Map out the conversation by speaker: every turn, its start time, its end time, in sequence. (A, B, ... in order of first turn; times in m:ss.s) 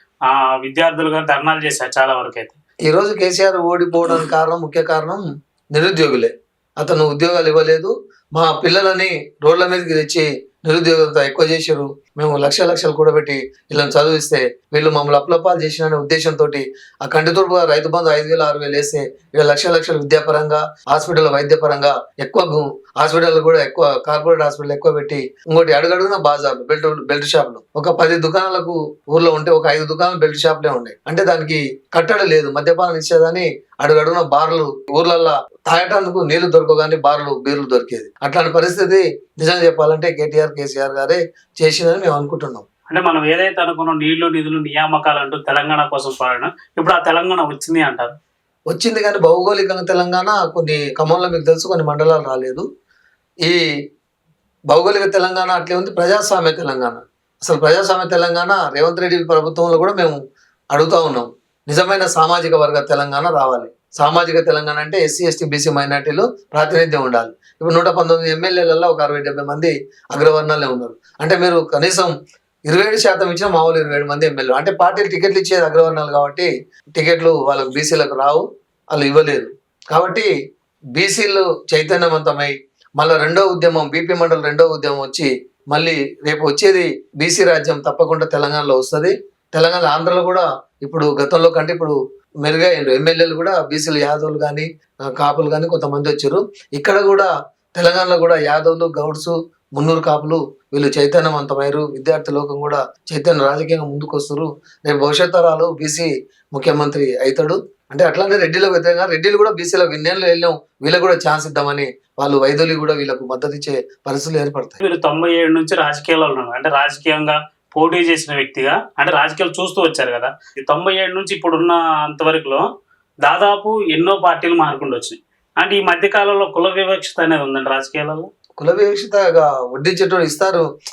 0:00.3-0:02.6 A
0:02.9-0:05.2 B
0:05.7-0:42.6 B
0:42.9-0:48.1 A
0:48.7-0:52.6 B
0:54.7-1:00.2 B
1:00.7-1:12.1 B
1:12.7-1:20.3 B
1:21.0-1:54.8 B
1:54.8-2:02.6 A
2:03.2-2:08.3 A
2:08.6-2:10.6 B